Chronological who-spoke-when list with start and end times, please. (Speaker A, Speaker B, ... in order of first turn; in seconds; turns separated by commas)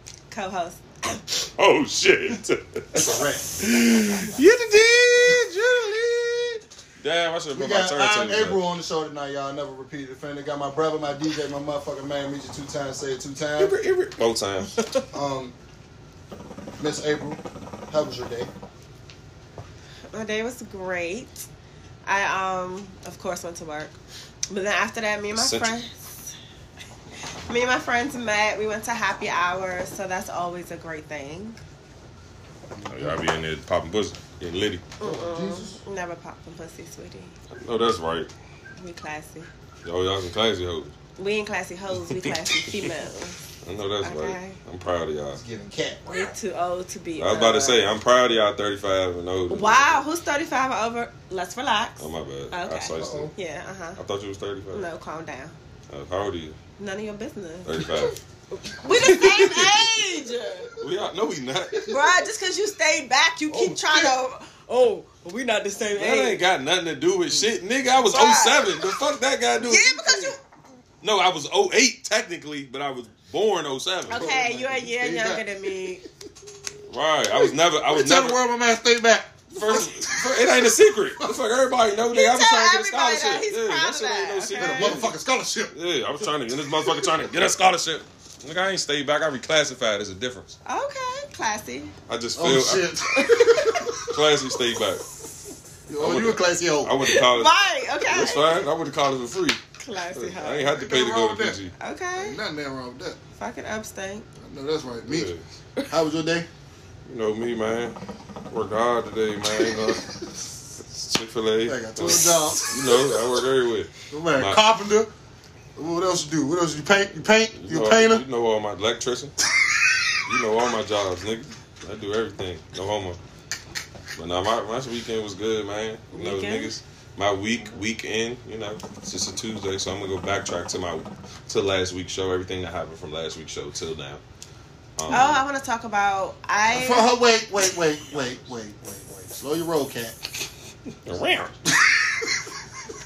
Speaker A: 0.3-1.2, Speaker B: 1.5-8.6, Speaker C: 2.9-3.5, Speaker C: 5.2-5.5, Speaker C: 7.5-13.8, Speaker B: 13.6-15.0, Speaker C: 15.1-15.5, Speaker C: 16.8-18.5, Speaker A: 20.1-21.4, Speaker A: 22.1-24.0, Speaker A: 24.5-26.3, Speaker B: 25.3-25.7, Speaker A: 27.4-31.6, Speaker C: 32.7-33.2, Speaker B: 32.9-34.9, Speaker A: 35.0-37.4, Speaker C: 35.0-35.8, Speaker B: 37.5-38.3, Speaker A: 38.8-39.5, Speaker B: 39.8-40.9, Speaker A: 41.2-43.4, Speaker B: 42.1-42.9, Speaker B: 43.6-45.4, Speaker A: 44.0-44.6, Speaker C: 45.3-46.4, Speaker A: 46.1-47.9, Speaker B: 47.2-50.0, Speaker A: 49.5-54.0, Speaker B: 52.0-53.3, Speaker C: 52.9-53.3, Speaker B: 54.0-54.9, Speaker A: 54.7-55.5, Speaker B: 55.9-56.6, Speaker A: 56.8-60.8, Speaker B: 57.6-58.2, Speaker B: 58.9-59.9, Speaker B: 60.8-61.9, Speaker A: 61.8-66.4, Speaker C: 63.5-64.1, Speaker B: 65.9-70.3, Speaker A: 68.0-68.8, Speaker A: 69.7-70.4, Speaker B: 71.0-74.3, Speaker A: 74.1-76.0, Speaker C: 74.1-76.0, Speaker B: 76.8-78.4, Speaker C: 77.3-80.7, Speaker B: 79.5-85.1, Speaker A: 82.1-85.0, Speaker C: 84.6-85.7, Speaker B: 85.7-90.5, Speaker C: 86.8-87.1, Speaker A: 90.6-91.9, Speaker B: 92.1-95.0, Speaker C: 92.3-94.3, Speaker C: 95.9-97.0, Speaker B: 96.0-101.7, Speaker A: 97.0-98.6, Speaker A: 99.8-100.8, Speaker C: 100.7-101.6, Speaker A: 101.8-102.4, Speaker C: 102.1-103.2, Speaker A: 103.4-104.3, Speaker C: 104.4-105.3, Speaker B: 105.0-105.4, Speaker C: 105.9-106.5, Speaker B: 107.0-108.0, Speaker B: 108.5-110.1, Speaker B: 110.8-114.6, Speaker C: 111.6-113.4, Speaker C: 114.1-115.1, Speaker C: 115.8-118.2, Speaker B: 117.5-119.4, Speaker C: 119.6-120.2, Speaker B: 120.2-123.2, Speaker B: 124.1-134.2, Speaker A: 126.1-126.7, Speaker B: 135.0-135.4, Speaker A: 135.1-137.1, Speaker C: 136.7-140.3, Speaker B: 141.0-141.5, Speaker C: 141.7-142.6